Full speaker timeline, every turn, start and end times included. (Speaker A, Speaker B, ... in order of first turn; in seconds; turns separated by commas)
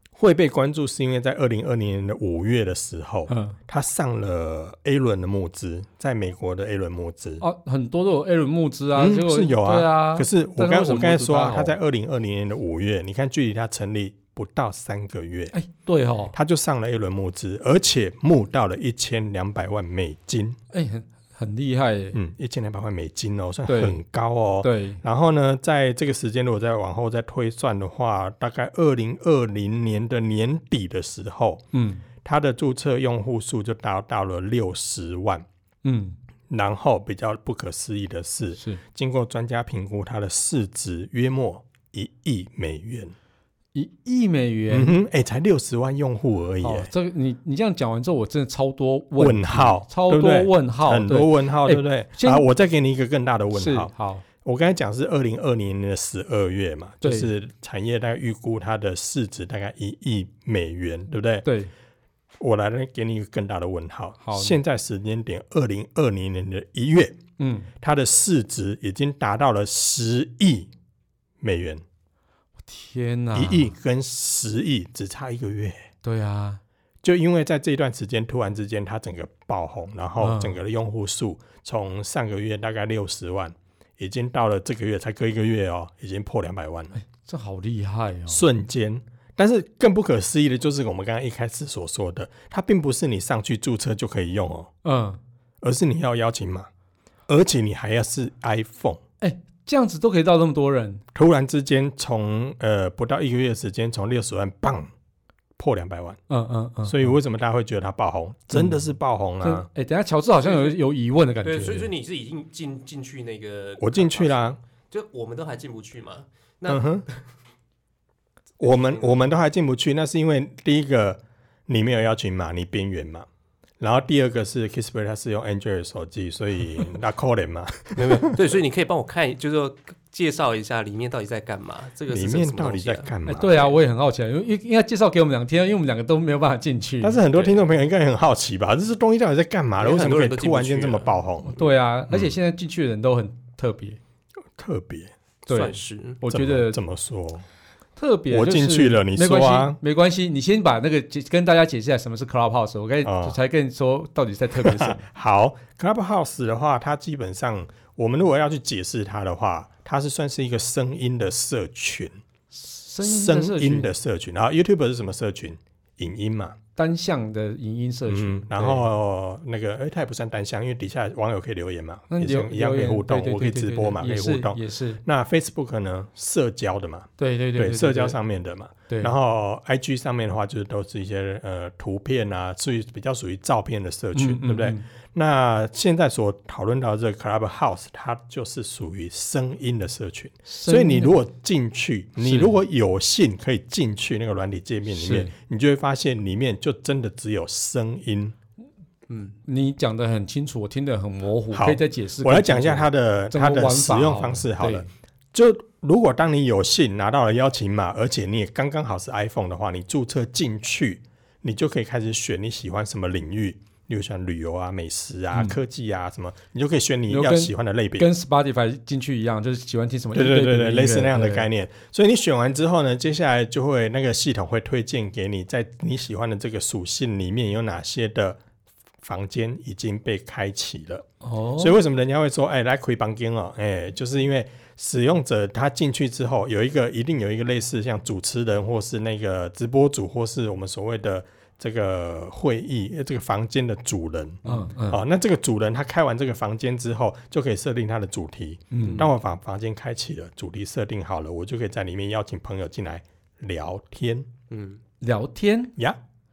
Speaker A: 0.1-7.4, Speaker B: 3.3-3.6, Speaker B: 7.4-11.8, Speaker A: 8.9-15.5, Speaker B: 15.5-16.3, Speaker A: 16.3-20.6, Speaker B: 20.7-22.2, Speaker A: 22.1-31.6, Speaker B: 23.7-24.0, Speaker B: 24.6-25.0, Speaker B: 31.7-32.0, Speaker A: 32.2-35.5, Speaker B: 35.8-36.2, Speaker A: 36.5-43.1, Speaker B: 43.7-45.0, Speaker A: 44.7-46.9, Speaker B: 46.6-52.5, Speaker A: 49.2-53.9, Speaker B: 53.5-54.2, Speaker A: 54.4-61.5, Speaker B: 57.0-57.3, Speaker B: 61.5-61.7, Speaker A: 62.4-67.2, Speaker B: 64.2-64.6, Speaker B: 67.4-67.7, Speaker A: 67.8-70.7, Speaker A: 71.4-71.8, Speaker B: 72.7-73.7, Speaker A: 73.3-75.9, Speaker B: 76.0-76.6, Speaker A: 77.0-87.0, Speaker B: 80.2-80.6, Speaker B: 87.0-88.5, Speaker A: 88.3-94.7, Speaker B: 94.8-95.2, Speaker A: 95.6-96.7, Speaker A: 97.3-99.0, Speaker B: 99.2-101.0, Speaker A: 101.1-104.9, Speaker A: 105.6-106.2, Speaker B: 106.3-107.2, Speaker A: 106.9-109.7, Speaker B: 108.5-108.8, Speaker B: 109.4-111.9, Speaker C: 110.5-110.8, Speaker C: 111.4-117.2, Speaker A: 113.8-114.6, Speaker A: 116.7-117.0, Speaker A: 118.6-123.3, Speaker C: 118.6-119.2, Speaker A: 123.8-128.5, Speaker C: 128.0-133.1, Speaker A: 132.1-133.7, Speaker B: 133.2-137.2, Speaker A: 137.0-141.5, Speaker C: 139.8-141.1, Speaker B: 141.4-144.0, Speaker A: 142.1-142.4, Speaker A: 144.6-145.1, Speaker C: 145.5-146.2, Speaker B: 145.5-146.8, Speaker A: 146.3-147.4, Speaker B: 148.0-155.0, Speaker A: 148.3-149.8, Speaker A: 153.0-153.4, Speaker A: 154.6-162.2, Speaker B: 162.5-163.9, Speaker A: 163.0-166.6, Speaker B: 166.8-168.9, Speaker A: 168.1-198.3, Speaker B: 172.1-175.0, Speaker B: 177.2-178.2, Speaker B: 178.9-179.2, Speaker B: 184.2-184.9, Speaker B: 190.5-191.2, Speaker B: 192.2-192.6, Speaker B: 194.9-195.3, Speaker C: 199.1-199.4, Speaker B: 199.4-204.9, Speaker A: 201.5-218.1, Speaker B: 217.1-221.5, Speaker A: 220.1-228.4, Speaker A: 229.0-231.1, Speaker B: 231.2-231.8, Speaker A: 231.6-254.3, Speaker B: 244.5-245.0, Speaker B: 248.7-249.1, Speaker C: 248.8-249.1, Speaker C: 254.5-254.8, Speaker B: 255.0-255.7